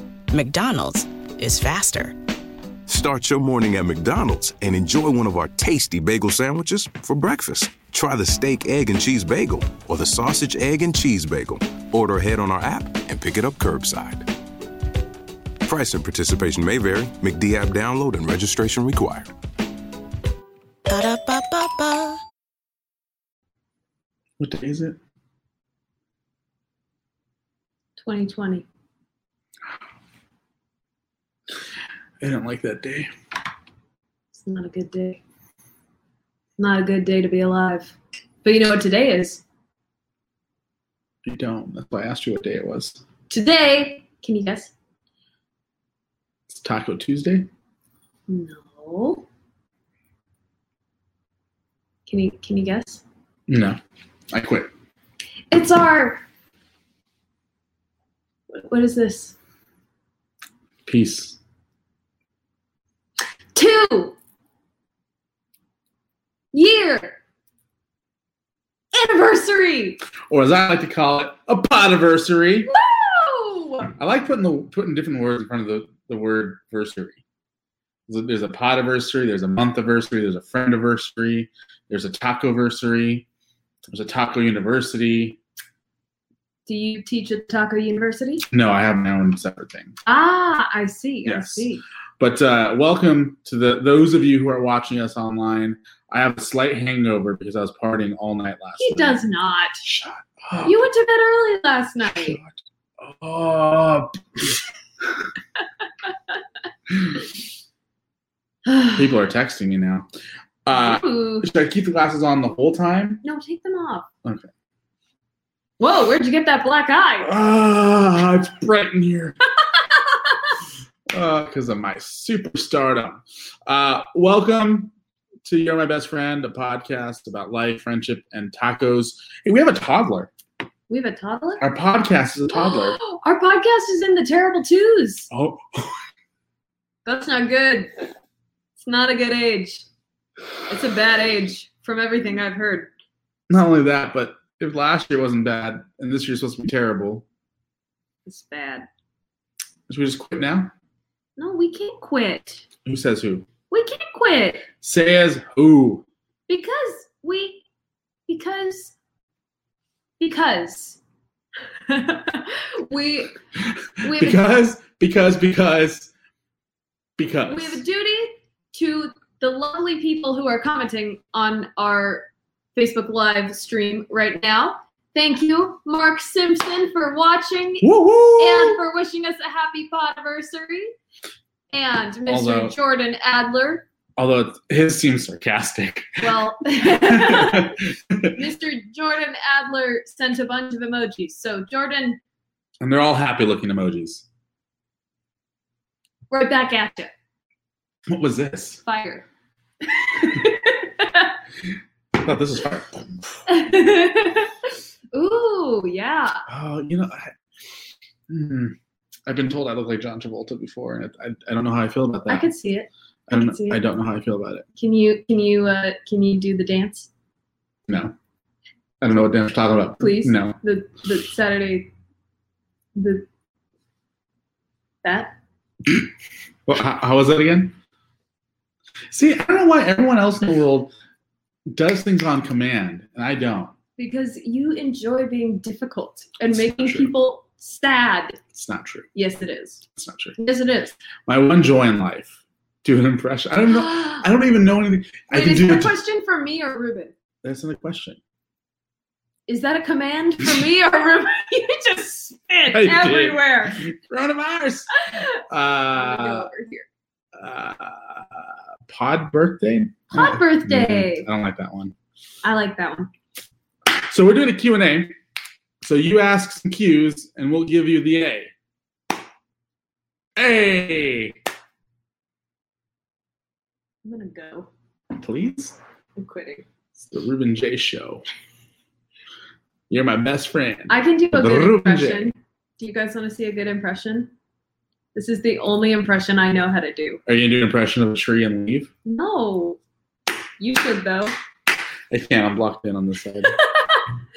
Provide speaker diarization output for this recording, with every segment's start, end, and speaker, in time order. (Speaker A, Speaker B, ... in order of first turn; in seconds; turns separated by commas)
Speaker A: 0.3-2.2, Speaker B: 2.9-14.3, Speaker B: 15.6-19.3, Speaker A: 20.9-22.2, Speaker C: 24.4-25.0, Speaker D: 28.0-28.7, Speaker C: 32.2-33.1, Speaker D: 34.3-35.2, Speaker D: 36.6-39.4, Speaker C: 41.2-43.0, Speaker D: 43.3-44.7, Speaker C: 46.5-47.5, Speaker D: 48.3-49.3, Speaker D: 52.1-53.0, Speaker C: 53.5-53.8, Speaker C: 54.3-54.7, Speaker D: 55.5-56.2, Speaker D: 58.5-59.4, Speaker C: 60.9-61.4, Speaker D: 63.5-64.2, Speaker D: 66.5-67.2, Speaker D: 68.9-70.0, Speaker C: 70.3-72.7, Speaker D: 72.6-73.9, Speaker C: 74.0-77.2, Speaker C: 78.1-83.2, Speaker C: 83.9-85.4, Speaker D: 86.7-88.5, Speaker C: 88.5-90.0, Speaker D: 90.1-91.8, Speaker C: 91.2-99.2, Speaker D: 98.8-99.8, Speaker C: 99.8-100.8, Speaker D: 100.7-102.4, Speaker C: 102.2-104.6, Speaker C: 106.9-107.2, Speaker D: 108.7-109.0, Speaker C: 109.0-110.1, Speaker C: 110.7-113.2, Speaker D: 110.7-111.5, Speaker D: 113.2-114.1, Speaker D: 115.8-117.3, Speaker C: 117.2-119.4, Speaker C: 121.1-124.9, Speaker C: 125.5-130.3, Speaker D: 130.9-131.6, Speaker C: 131.6-133.0, Speaker D: 132.5-135.3, Speaker C: 135.3-136.0, Speaker D: 137.1-138.0, Speaker D: 138.8-139.9, Speaker D: 140.7-142.9, Speaker C: 143.5-147.2, Speaker D: 148.3-148.9, Speaker C: 149.9-150.7, Speaker D: 151.4-152.7, Speaker C: 152.8-153.5, Speaker D: 153.7-154.7, Speaker C: 154.8-156.1, Speaker D: 156.5-157.6, Speaker D: 158.3-158.9, Speaker D: 160.2-161.0, Speaker D: 161.9-163.3, Speaker C: 163.6-166.1, Speaker D: 164.0-164.4, Speaker C: 167.2-167.8, Speaker D: 167.5-180.9, Speaker C: 177.8-178.8, Speaker D: 181.7-183.8, Speaker C: 182.3-182.8, Speaker C: 184.2-188.4, Speaker D: 186.2-187.8, Speaker D: 188.3-192.2, Speaker C: 192.8-194.2, Speaker D: 196.3-197.1, Speaker C: 198.1-198.8, Speaker D: 198.8-199.2, Speaker D: 200.1-201.3, Speaker C: 202.1-203.4, Speaker D: 203.5-204.5, Speaker D: 205.1-206.4, Speaker C: 206.5-207.3, Speaker C: 208.3-208.8, Speaker C: 209.3-212.5, Speaker D: 212.3-213.8, Speaker C: 213.3-214.7, Speaker D: 214.8-217.1, Speaker C: 217.9-218.2, Speaker C: 219.0-220.6, Speaker D: 220.0-221.9, Speaker D: 223.0-223.3, Speaker D: 225.0-225.3, Speaker C: 226.7-227.8, Speaker C: 229.1-230.9, Speaker C: 231.7-233.7, Speaker D: 234.0-238.4, Speaker C: 236.5-237.1, Speaker C: 238.5-239.1, Speaker D: 239.2-239.8, Speaker C: 240.0-240.4, Speaker D: 240.4-241.0, Speaker C: 241.3-245.9, Speaker D: 243.7-244.3, Speaker D: 245.3-247.1, Speaker C: 247.4-248.2, Speaker D: 249.5-253.8, Speaker C: 252.7-254.9, Speaker C: 255.4-256.5, Speaker D: 255.9-256.9, Speaker C: 257.4-261.9, Speaker D: 260.1-261.3, Speaker D: 262.4-263.1, Speaker C: 264.0-265.1, Speaker C: 265.8-268.5, Speaker C: 270.4-271.4, Speaker D: 274.1-274.7, Speaker C: 275.1-275.8, Speaker D: 276.2-276.6, Speaker C: 277.0-278.2, Speaker C: 279.9-282.3, Speaker D: 280.9-284.3, Speaker D: 285.1-287.2, Speaker C: 287.3-288.9, Speaker D: 289.1-289.8, Speaker D: 290.6-291.3, Speaker C: 292.1-293.6, Speaker D: 293.8-294.1